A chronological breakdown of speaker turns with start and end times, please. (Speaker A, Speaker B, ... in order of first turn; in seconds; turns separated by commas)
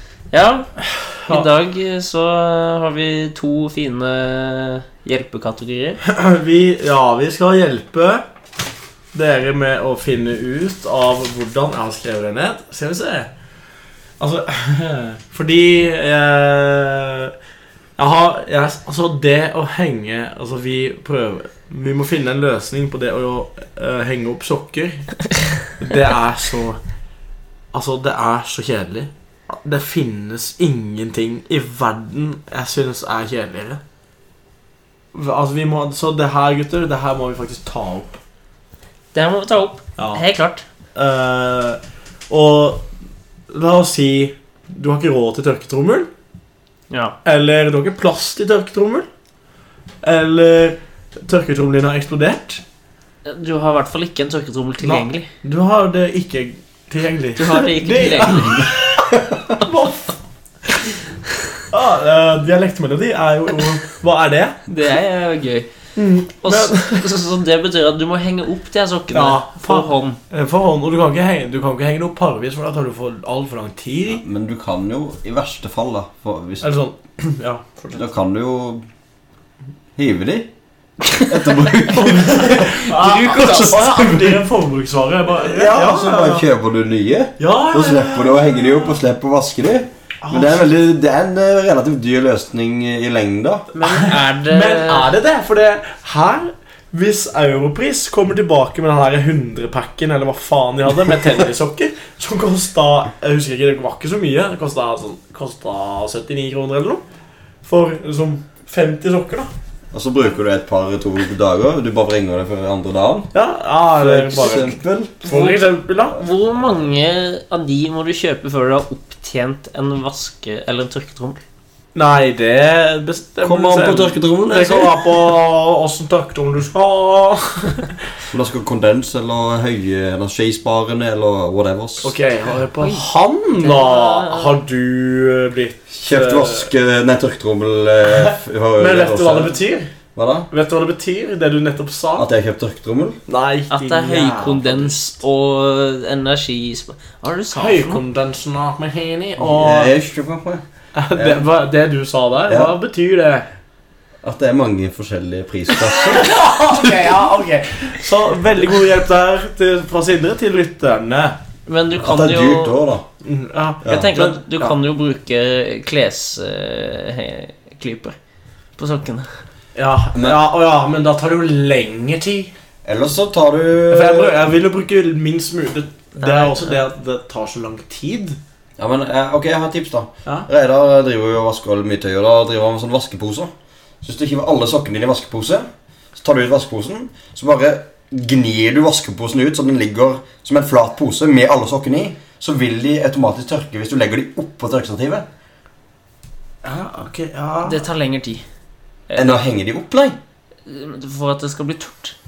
Speaker A: 0.3-0.7, Speaker B: 0.8-1.5, Speaker A: 1.3-6.0, Speaker B: 6.0-8.2, Speaker B: 9.1-13.3, Speaker B: 14.2-17.3, Speaker B: 18.0-25.1, Speaker B: 25.8-26.8, Speaker B: 27.7-33.8, Speaker B: 35.1-38.2, Speaker A: 39.1-40.6, Speaker B: 40.0-40.3, Speaker B: 40.9-42.9, Speaker B: 43.5-46.1, Speaker A: 46.9-47.1, Speaker B: 47.2-49.1, Speaker B: 50.0-52.6, Speaker A: 53.2-55.3, Speaker B: 54.8-60.2, Speaker A: 57.4-58.6, Speaker B: 60.7-60.9, Speaker B: 61.6-64.6, Speaker A: 64.7-65.7, Speaker B: 66.0-67.1, Speaker A: 66.4-70.2, Speaker B: 69.1-74.2, Speaker C: 74.1-76.7, Speaker B: 76.6-78.0, Speaker C: 77.9-78.8, Speaker C: 80.0-80.5, Speaker C: 81.2-82.7, Speaker B: 82.0-86.5, Speaker A: 82.6-84.2, Speaker C: 85.4-93.7, Speaker B: 87.4-88.6, Speaker B: 90.2-90.7, Speaker A: 93.7-95.1, Speaker B: 93.8-107.0, Speaker B: 107.6-109.5, Speaker C: 109.9-113.3, Speaker B: 113.3-116.2, Speaker C: 114.0-115.1, Speaker A: 115.2-121.4, Speaker B: 121.9-128.0, Speaker C: 123.4-125.2, Speaker C: 128.3-132.1, Speaker B: 132.0-136.7, Speaker A: 132.8-133.0, Speaker A: 133.6-134.6, Speaker C: 135.9-139.6, Speaker B: 138.3-139.9, Speaker C: 140.2-140.5, Speaker B: 140.5-142.3, Speaker C: 142.2-143.2, Speaker B: 143.3-145.2, Speaker A: 143.7-148.0, Speaker B: 147.5-149.9, Speaker C: 149.4-150.6, Speaker B: 150.9-153.5, Speaker C: 151.1-151.4, Speaker C: 152.5-152.7, Speaker C: 154.2-156.8, Speaker B: 155.8-161.4, Speaker A: 161.7-162.7, Speaker C: 162.0-163.1, Speaker B: 163.2-164.8, Speaker C: 163.8-164.1, Speaker A: 163.8-168.2, Speaker A: 168.8-169.3, Speaker B: 169.7-172.5, Speaker C: 172.8-174.3, Speaker B: 173.9-178.4, Speaker A: 176.2-176.8, Speaker C: 178.8-183.5, Speaker C: 184.0-195.2, Speaker B: 196.6-197.8, Speaker A: 197.6-198.4, Speaker A: 199.1-199.3, Speaker C: 199.1-200.2, Speaker A: 200.7-202.1